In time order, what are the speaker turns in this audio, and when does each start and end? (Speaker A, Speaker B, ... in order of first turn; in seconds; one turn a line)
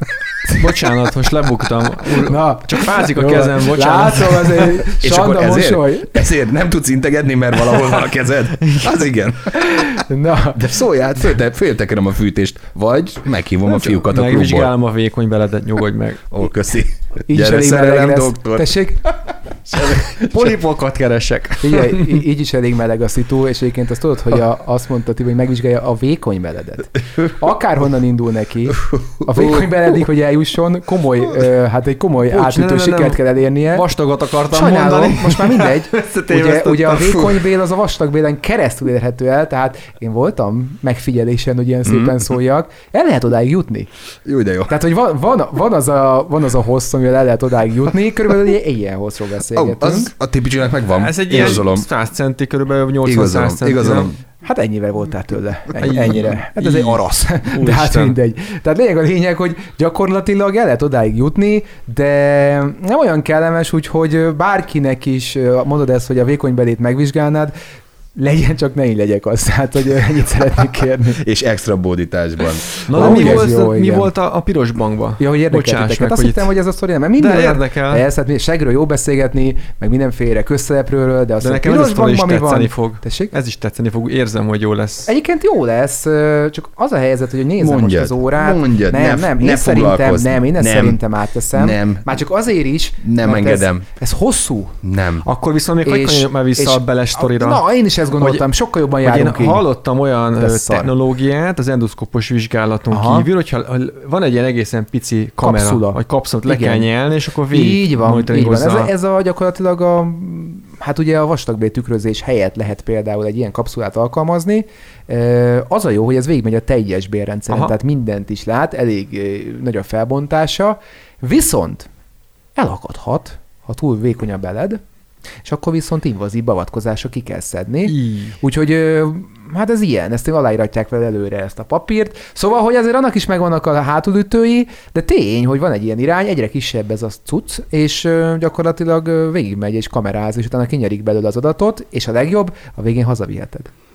Speaker A: 0.5-4.8
Speaker B: 2.1-6.3
Speaker C: 4.8-9.8
Speaker B: 9.6-10.6
Speaker C: 10.5-14.7
Speaker A: 13.8-16.3
Speaker C: 16.3-20.6
Speaker B: 17.3-19.0
Speaker A: 20.0-22.2
Speaker B: 21.6-33.9
Speaker C: 28.9-29.7
Speaker A: 32.2-37.4
Speaker B: 34.5-43.9
Speaker C: 41.9-42.2
Speaker C: 44.2-44.7
Speaker B: 44.7-50.1
Speaker C: 49.5-51.9
Speaker A: 50.9-54.1
Speaker C: 53.0-54.2
Speaker B: 54.4-67.5
Speaker A: 55.8-58.2
Speaker B: 68.2-71.2
Speaker C: 71.2-73.5
Speaker A: 72.8-76.5
Speaker B: 72.9-74.1
Speaker B: 75.2-83.3
Speaker A: 77.2-78.0
Speaker A: 81.4-85.1
Speaker B: 85.1-94.8
Speaker C: 87.6-91.0
Speaker C: 91.5-92.2
Speaker C: 93.0-93.8
Speaker C: 94.8-95.2
Speaker A: 95.2-97.6
Speaker B: 95.8-99.6
Speaker A: 98.2-98.5
Speaker A: 99.0-108.9
Speaker B: 100.4-100.9
Speaker B: 102.9-103.3
Speaker B: 105.4-106.9
Speaker B: 107.5-121.9
Speaker B: 122.5-124.8
Speaker B: 125.4-143.7
Speaker A: 127.9-128.4